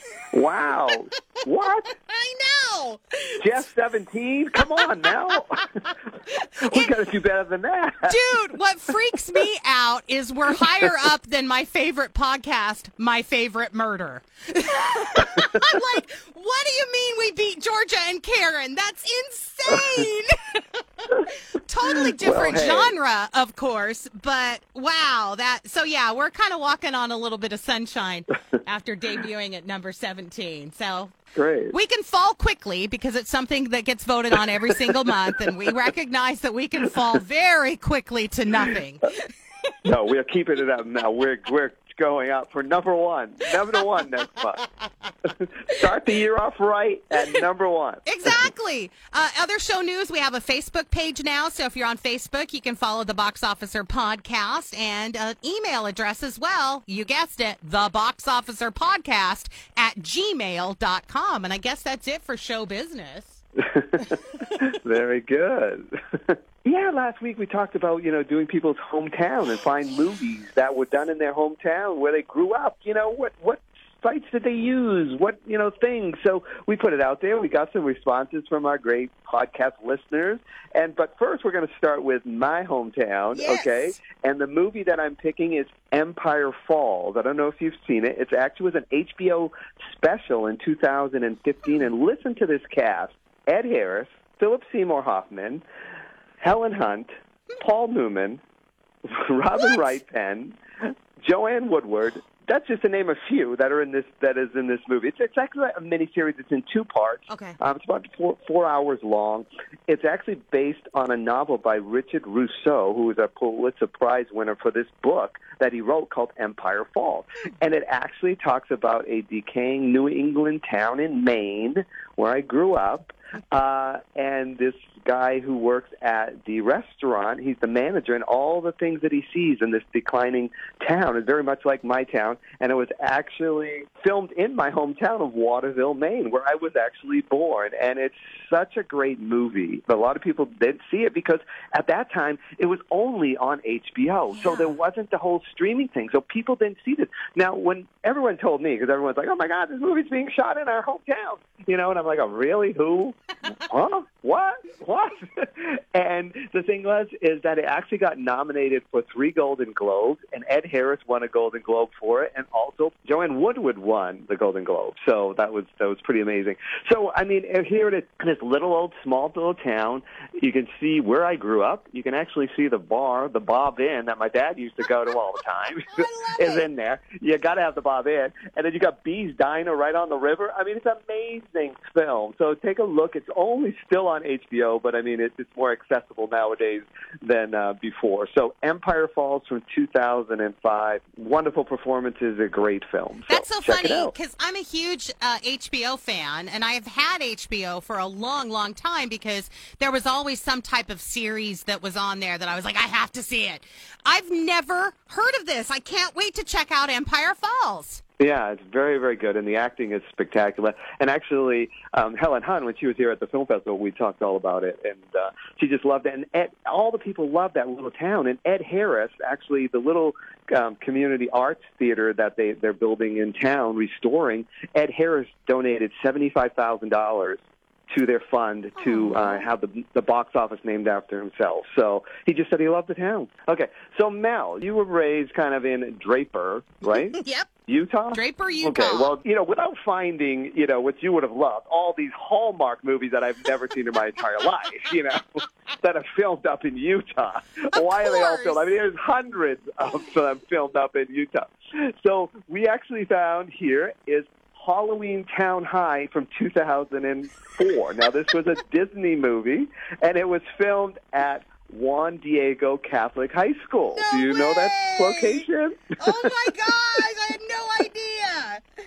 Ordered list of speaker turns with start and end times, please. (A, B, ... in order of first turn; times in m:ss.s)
0:00.3-0:01.9 A
0:01.3-0:03.6 B
0:03.4-0:05.6 A
0:04.6-0:06.9 B
0:06.6-0:08.3 A
0:08.1-0:31.2 B
0:15.1-0:15.5 A
0:19.7-0:20.0 A
0:21.9-0:22.9 A
0:31.3-0:31.7 A
0:31.7-0:39.2 B
0:39.8-0:44.6 A
0:45.3-0:48.5 A
0:48.0-1:03.4 B
1:03.6-1:35.6 A
1:04.0-1:04.6 B
1:23.3-1:24.0 B
1:36.4-1:37.1 A
1:37.6-1:38.4 A
1:39.1-1:40.6 A
1:39.6-1:40.0 B
1:41.2-3:14.1 A
1:47.3-1:47.6 B
2:24.3-2:24.7 B
2:55.9-2:56.6 B
3:13.3-3:28.0 B
3:28.2-4:26.3 A
3:48.8-3:49.5 B
3:56.9-3:57.5 B
3:58.1-3:59.1 B
4:07.7-4:08.6 B
4:23.9-4:25.4 B
4:26.0-4:28.6 B